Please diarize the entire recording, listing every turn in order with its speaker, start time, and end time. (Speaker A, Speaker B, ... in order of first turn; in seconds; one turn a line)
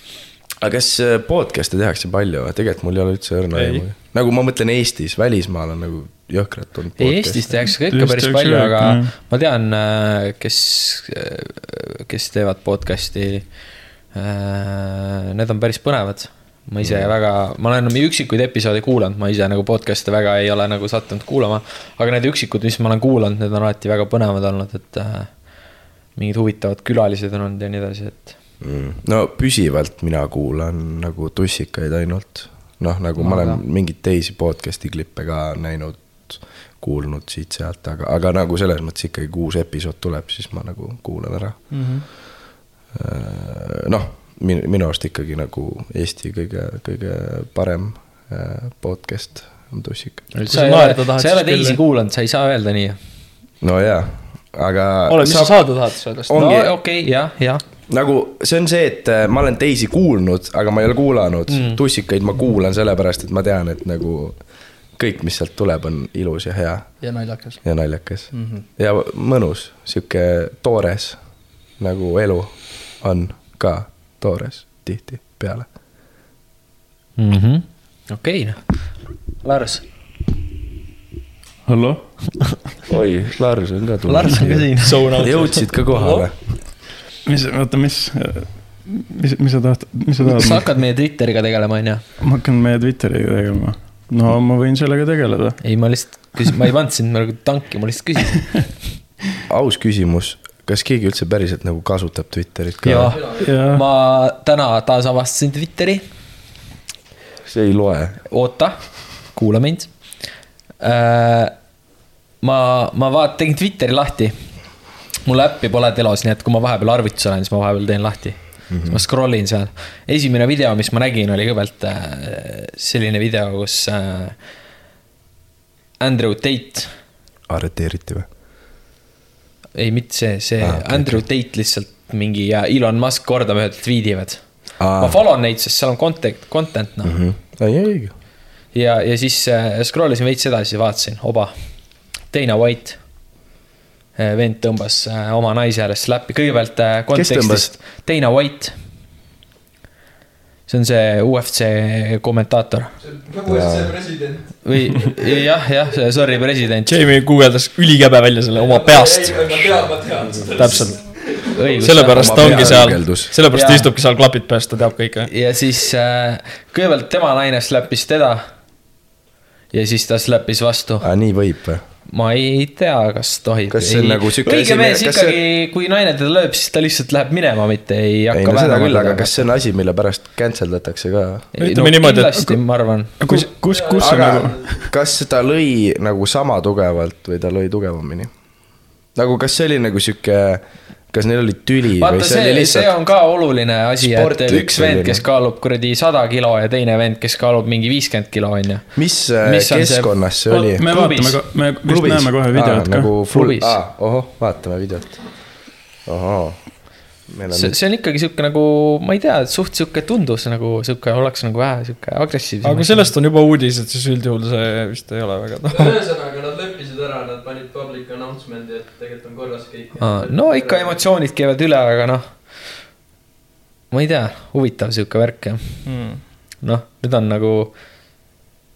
Speaker A: 0.6-7.4
Speaker B: 3.5-3.8
Speaker C: 7.0-25.3
Speaker D: 7.8-9.1
Speaker A: 16.8-17.1
Speaker C: 26.1-28.4
Speaker A: 28.6-42.1
Speaker C: 33.2-33.6
Speaker B: 41.7-42.0
Speaker A: 42.9-50.3
Speaker C: 50.3-53.0
Speaker B: 50.5-51.8
Speaker A: 53.6-55.6
Speaker B: 55.1-56.4
Speaker A: 56.2-56.7
Speaker C: 56.4-57.6
Speaker A: 57.9-64.4
Speaker C: 61.5-61.8
Speaker A: 65.0-67.0
Speaker B: 67.0-67.7
Speaker A: 67.6-71.2
Speaker B: 68.3-68.6
Speaker A: 71.8-75.7
Speaker C: 77.2-79.8
Speaker D: 81.6-82.6
Speaker A: 82.9-86.4
Speaker C: 84.0-85.0
Speaker B: 84.8-86.3
Speaker D: 87.2-90.6
Speaker C: 90.2-92.0
Speaker D: 92.2-95.6
Speaker C: 95.6-98.8
Speaker A: 99.5-103.1
Speaker C: 102.8-106.0
Speaker E: 103.1-103.5
Speaker D: 103.4-103.8
Speaker A: 107.5-108.2
Speaker C: 108.3-110.0
Speaker C: 110.8-111.5
Speaker C: 112.4-114.3
Speaker C: 115.2-124.3
Speaker A: 118.7-119.0
Speaker C: 126.0-126.9
Speaker A: 127.5-128.3
Speaker C: 129.7-137.2
Speaker A: 130.6-131.2
Speaker A: 134.8-135.2
Speaker A: 137.0-138.1
Speaker C: 138.7-141.5
Speaker C: 142.2-143.0
Speaker C: 144.2-148.7
Speaker A: 147.1-147.7
Speaker C: 150.7-152.9
Speaker E: 153.0-154.6
Speaker A: 153.4-153.9
Speaker C: 154.6-156.9
Speaker B: 156.8-161.1
Speaker E: 158.5-161.7
Speaker A: 160.5-161.0
Speaker C: 161.5-162.9
Speaker B: 161.8-165.3
Speaker A: 162.1-163.3
Speaker C: 163.5-163.9
Speaker C: 165.3-168.4
Speaker C: 169.7-171.1
Speaker A: 171.0-171.8
Speaker C: 172.1-179.5
Speaker A: 173.7-175.4
Speaker A: 178.3-181.5
Speaker B: 181.6-182.6
Speaker C: 181.6-183.4
Speaker D: 183.2-184.8
Speaker E: 183.6-184.8
Speaker A: 184.0-188.3
Speaker A: 189.1-192.9
Speaker C: 192.0-198.9
Speaker A: 194.0-195.2
Speaker A: 198.9-200.8
Speaker C: 199.4-200.1
Speaker D: 200.5-203.1
Speaker C: 200.8-201.4
Speaker A: 201.8-207.8
Speaker C: 203.3-203.7
Speaker C: 207.5-213.1
Speaker B: 212.6-215.9
Speaker E: 215.7-221.0
Speaker C: 220.0-222.2
Speaker C: 223.9-225.9
Speaker B: 225.8-226.2
Speaker C: 226.6-227.7